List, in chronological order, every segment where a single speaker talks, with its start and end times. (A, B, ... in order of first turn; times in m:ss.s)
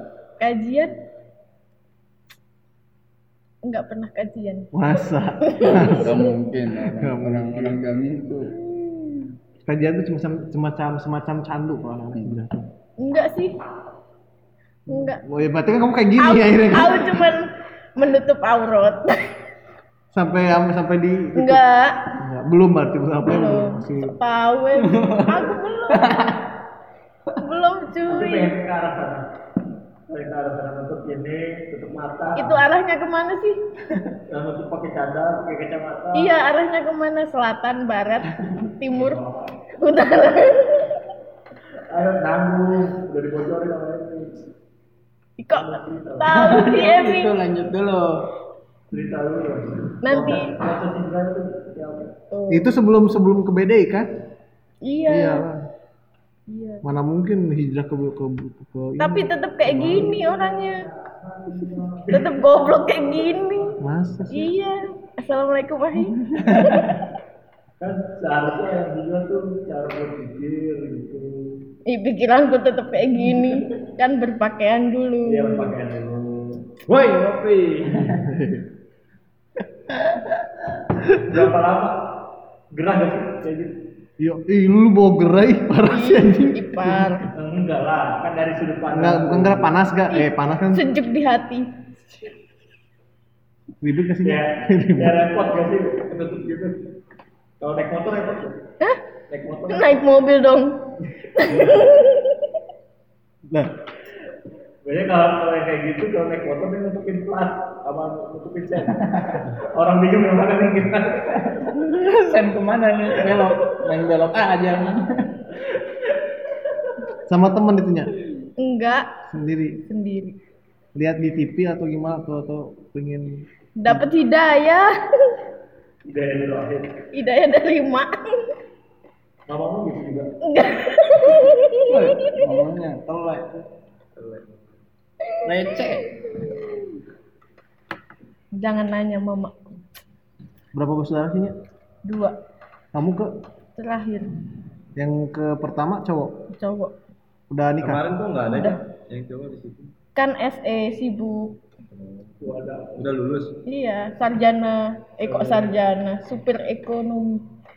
0:00.4-0:00.9 A
0:03.6-0:06.3 A
0:04.7-0:06.2 B
0:05.7-0:08.5 C
0:06.9-0:07.8 B
0:08.8-0:09.2 A
0:09.6-0:12.7 B
0:13.0-0:13.6 A
0:14.9-0:15.2 A
0:14.9-0:17.3 B
0:16.2-0:19.2 A
0:20.1-0:21.6 B
0:21.4-0:22.1 A
0:22.2-0:24.2 B
0:23.3-0:26.3 A
0:24.8-0:26.4 C
0:27.4-0:28.5 A
0:28.1-0:29.2 D
0:30.1-0:32.6 D
0:32.4-0:33.6 A
0:34.3-0:36.3 D
0:36.1-0:39.2 A
0:38.9-0:39.6 D
0:39.7-0:41.0 A
0:41.9-0:44.5 D
0:45.4-0:47.4 A
0:45.5-0:46.7 D
0:46.3-0:48.3 C
0:48.9-0:52.1 D
0:50.0-0:50.5 A
0:52.3-0:52.7 A
0:52.5-0:54.1 B
0:54.8-0:55.4 A
0:55.1-0:55.6 B
0:56.5-0:56.8 A
0:56.8-1:00.2 B
0:59.0-1:00.9 A
0:59.8-1:03.8 D
1:02.1-1:03.7 A
1:03.8-1:04.5 B
1:04.3-1:07.0 A
1:06.2-1:06.8 C
1:07.8-1:11.6 D
1:11.9-1:15.7 A
1:15.2-1:16.7 D
1:16.9-1:18.0 E
1:18.2-1:18.7 B
1:21.1-1:22.0 D
1:22.7-1:23.7 D
1:24.2-1:27.1 B
1:25.9-1:27.2 A
1:27.3-1:29.7 D
1:28.9-1:30.9 B
1:30.1-1:32.2 A
1:33.8-1:35.2 B
1:34.2-1:36.8 D
1:37.6-1:38.6 D
1:39.3-1:40.0 D
1:39.7-1:42.3 A
1:41.5-1:41.8 D
1:44.8-1:51.3 D
1:49.0-1:49.4 C
1:51.4-1:55.4 C
1:57.3-1:58.1 B
1:58.6-2:00.4 A
1:59.3-1:59.8 B
2:00.9-2:04.1 B
2:03.8-2:05.3 A
2:06.0-2:06.9 D
2:07.1-2:08.5 A
2:09.5-2:10.3 D
2:10.4-2:12.4 A
2:11.9-2:13.6 C
2:14.2-2:14.5 E
2:15.4-2:16.2 C
2:15.6-2:16.5 A
2:18.6-2:19.8 A
2:20.7-2:21.5 B
2:22.0-2:22.4 A
2:22.9-2:23.3 B
2:23.8-2:24.3 A
2:25.0-2:26.3 B
2:26.5-2:26.9 A
2:27.5-2:28.0 B
2:27.8-2:29.9 E
2:28.5-2:28.8 A
2:30.2-2:31.6 A
2:31.9-2:33.6 E
2:32.4-2:33.1 D
2:33.6-2:37.4 A
2:35.2-2:35.7 D